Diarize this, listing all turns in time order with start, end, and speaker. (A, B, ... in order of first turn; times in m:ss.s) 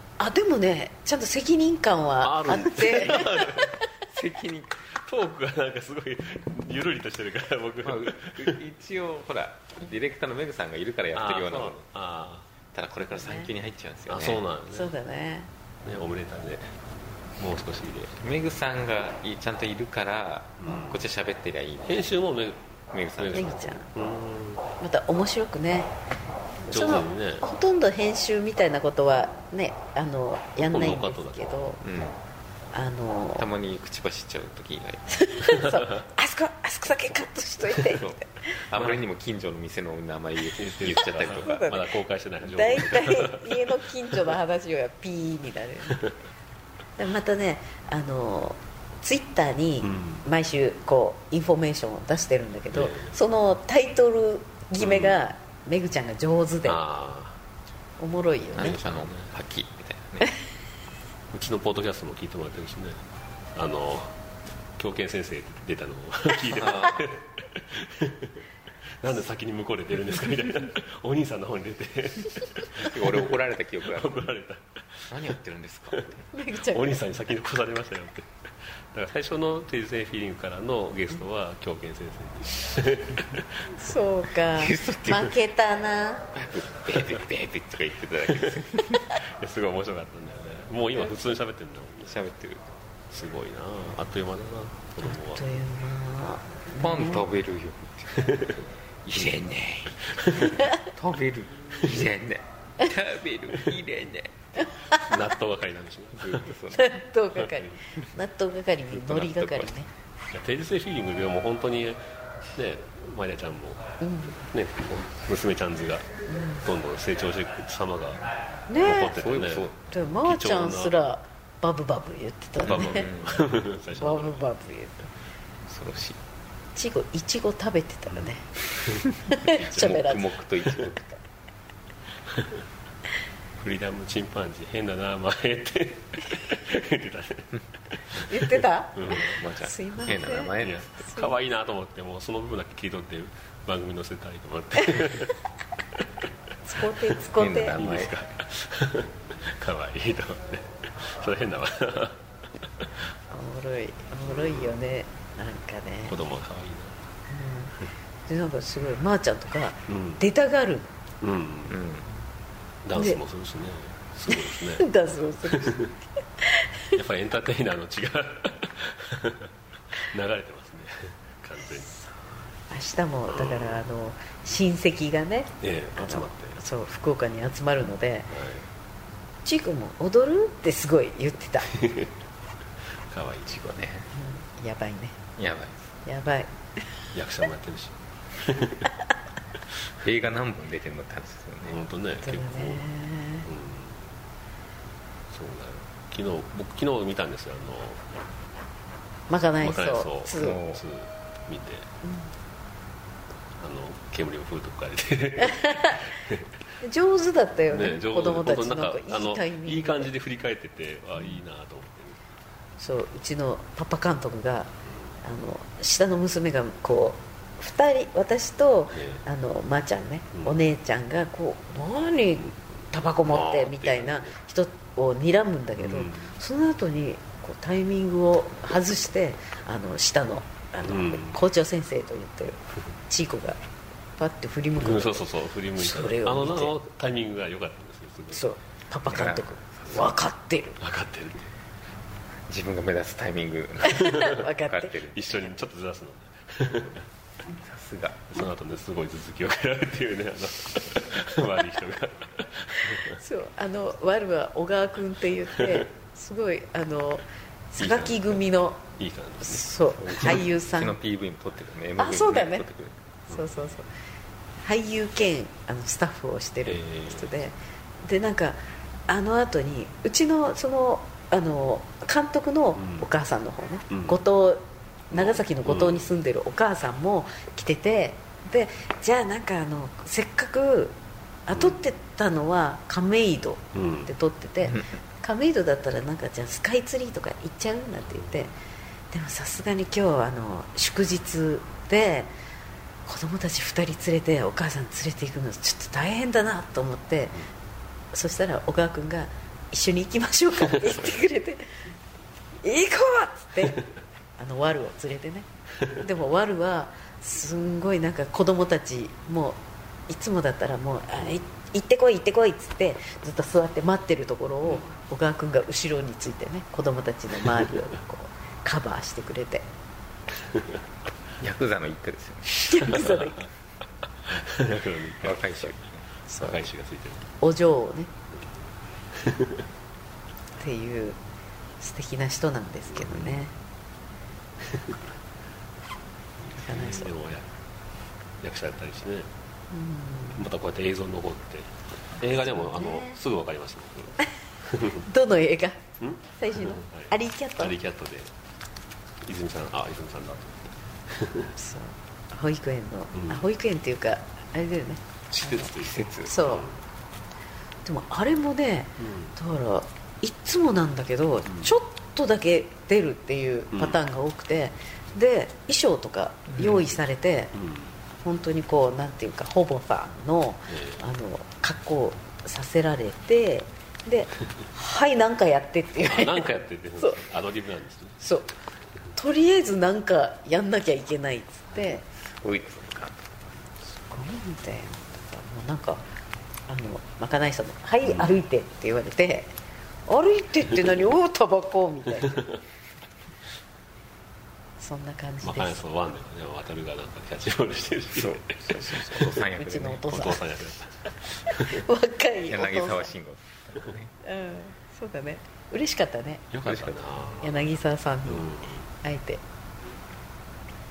0:00.2-0:03.8 A
0:02.2-0:03.8 B
0:04.1-0:04.9 C
0:04.9-0:08.6 B
0:07.8-0:11.8 C
0:11.1-0:12.5 B
0:12.7-0:14.4 C
0:13.1-0:13.5 A
0:14.1-0:14.9 B
0:14.7-0:15.5 A
0:15.8-0:16.7 B
0:17.4-0:18.2 B
0:18.2-0:22.1 C
0:20.6-0:21.0 B
0:21.8-0:22.6 B
0:22.9-0:23.6 C
0:23.2-0:24.6 B
0:23.3-0:23.8 A
0:24.8-0:25.9 A
0:26.6-0:31.8 A
0:26.6-0:27.4 B
0:30.6-0:31.6 B
0:31.8-0:32.2 C
0:32.7-0:33.4 A
0:33.4-0:35.3 C
0:35.1-0:38.1 A
0:37.8-0:41.8 C
0:38.7-0:39.0 B
0:40.5-0:43.7 B
0:41.3-0:41.8 A
0:42.4-0:46.0 A
0:47.0-0:56.8 A
0:49.8-0:50.2 B
0:52.7-0:53.2 B
0:54.8-0:55.2 B
0:56.6-0:57.4 B
0:58.0-0:58.8 A
0:58.5-1:00.3 C
0:58.6-0:59.3 B
1:01.3-1:03.0 B
1:03.5-1:04.2 B
1:04.8-1:08.4 B
1:06.6-1:07.1 C
1:09.0-1:15.4 B
1:12.7-1:14.2 C
1:15.1-1:16.3 C
1:15.9-1:23.7 B
1:16.3-1:17.1 A
1:23.7-1:26.3 A
1:24.5-1:25.4 C
1:26.3-1:29.0 C
1:28.3-1:28.6 B
1:29.2-1:32.2 B
1:32.0-1:32.7 C
1:33.1-1:35.6 B
1:35.1-1:37.2 A
1:36.8-1:38.3 C
1:38.2-1:38.6 B
1:39.0-1:44.7 C
1:40.2-1:40.6 B
1:45.0-1:46.5 B
1:46.2-1:46.9 C
1:46.7-1:49.9 A
1:47.4-1:47.7 B
1:48.9-1:49.8 C
1:50.3-1:52.0 B
1:52.5-1:56.1 B
1:54.0-1:54.4 A
1:56.3-1:56.6 A
1:56.6-1:58.2 B
1:58.7-1:59.2 A
1:58.8-1:59.7 B
1:59.0-1:59.8 C
1:59.9-2:03.1 A
2:00.2-2:00.9 B
2:02.6-2:04.4 B
2:02.7-2:03.6 C
2:04.0-2:05.1 A
2:05.7-2:06.2 C
2:06.7-2:08.5 A
2:08.8-2:10.0 B
2:09.1-2:10.4 A
2:09.7-2:11.0 C
2:10.9-2:11.2 A
2:12.2-2:12.6 B
2:13.6-2:19.4 B
2:18.2-2:21.4 A
2:19.1-2:20.9 C
2:20.5-2:25.3 B
2:25.9-2:26.2 B
2:26.6-2:27.8 A
2:27.0-2:32.9 B
2:27.3-2:28.1 C
2:33.3-2:36.2 A
2:34.2-2:34.7 B
2:36.1-2:37.0 B
2:37.3-2:37.8 A
2:38.3-2:40.9 A
2:39.9-2:40.2 B
2:41.2-2:41.8 B
2:41.7-2:42.1 C
2:42.8-2:44.9 B
2:44.3-2:47.0 A
2:45.4-2:45.9 B
2:46.9-2:52.0 B
2:52.7-2:58.3 A
2:53.3-2:53.8 B
2:55.6-2:56.6 B
2:58.3-2:58.7 B
2:59.4-3:01.7 A
3:01.7-3:02.1 B
3:03.1-3:03.5 B
3:03.5-3:04.1 C
3:04.1-3:05.2 A
3:05.4-3:05.8 C
3:06.0-3:06.8 A
3:07.1-3:08.9 B
3:10.0-3:11.8 C
3:11.6-3:12.9 B
3:12.2-3:13.5 A
3:13.4-3:14.1 B
3:15.3-3:18.0 B
3:19.3-3:20.6 A
3:19.6-3:21.9 B
3:20.4-3:20.8 C
3:22.0-3:22.3 A
3:23.6-3:26.5 B
3:25.4-3:26.0 A
3:26.8-3:30.1 A
3:27.7-3:32.2 B
3:32.8-3:34.7 A
3:34.9-3:35.2 B
3:35.2-3:53.6 A
3:38.9-3:39.2 B
3:40.3-3:40.6 B
3:43.3-3:44.4 B
3:45.8-3:46.3 B
3:50.8-3:51.4 B
3:54.2-3:55.2 A
3:54.8-3:58.4 B
3:55.7-3:56.7 A
3:58.3-4:00.8 A
3:59.1-4:00.1 C
4:00.8-4:01.5 B
4:02.5-4:05.5 C
4:03.9-4:04.9 A
4:05.1-4:07.0 B
4:07.6-4:08.2 C
4:08.3-4:13.2 B
4:13.1-4:18.8 A
4:15.5-4:15.9 B
4:17.8-4:18.4 B
4:18.9-4:20.4 B
4:19.4-4:21.0 A
4:20.0-4:23.0 C
4:22.0-4:22.7 A
4:23.3-4:23.6 B
4:23.3-4:23.9 A
4:24.6-4:48.5 A
4:26.6-4:27.4 B
4:32.8-4:33.1 B
4:33.9-4:34.2 B
4:35.1-4:36.1 B
4:43.7-4:44.1 B
4:44.6-4:44.9 C
4:48.1-4:48.5 B
4:49.1-4:52.3 A
4:53.0-4:57.4 A
4:58.1-5:01.8 A
5:02.6-5:03.8 A
5:04.4-5:19.7 A
5:14.6-5:14.9 B
5:20.5-5:20.8 B
5:21.4-5:23.0 C
5:22.6-5:23.5 A
5:22.9-5:23.3 B
5:24.2-5:25.8 B
5:25.2-5:26.1 C
5:26.3-5:26.6 A
5:26.4-5:27.3 B
5:27.4-5:28.1 A
5:29.1-5:29.7 B
5:30.6-5:31.2 A
5:31.8-5:33.5 A
5:32.9-5:33.4 B
5:34.6-5:35.0 B
5:36.4-5:37.5 B
5:36.6-5:37.1 A
5:38.4-5:39.3 B
5:39.7-5:40.4 A
5:40.3-5:45.0 B
5:42.4-5:43.2 A
5:44.9-5:47.8 A
5:46.0-5:48.3 B
5:49.2-5:51.5 B
5:51.5-5:55.7 A
5:53.1-5:53.4 B
5:55.4-5:56.8 B
5:55.7-5:56.3 C
5:56.2-5:56.7 A
5:57.8-6:07.5 A
5:59.0-5:59.3 B
6:01.5-6:01.7 B
6:03.7-6:04.0 B
6:06.6-6:06.9 B
6:07.5-6:07.9 B
6:08.2-6:16.5 A
6:10.7-6:11.0 B
6:16.0-6:18.2 B
6:18.2-6:18.5 A
6:19.1-6:22.0 A
6:22.2-6:23.2 C
6:24.0-6:26.0 A
6:26.7-6:29.5 A
6:28.0-6:28.4 B
6:30.1-6:32.4 A
6:32.1-6:32.6 B
6:34.8-6:35.8 A
6:35.4-6:39.4 B
6:38.1-6:40.0 C
6:39.5-6:40.4 A
6:40.1-6:41.8 B
6:41.5-6:43.1 A
6:42.5-6:44.1 C
6:44.2-6:46.4 A
6:46.5-6:47.7 B
6:46.6-6:47.0 C
6:47.4-6:49.4 A
6:48.2-6:48.9 B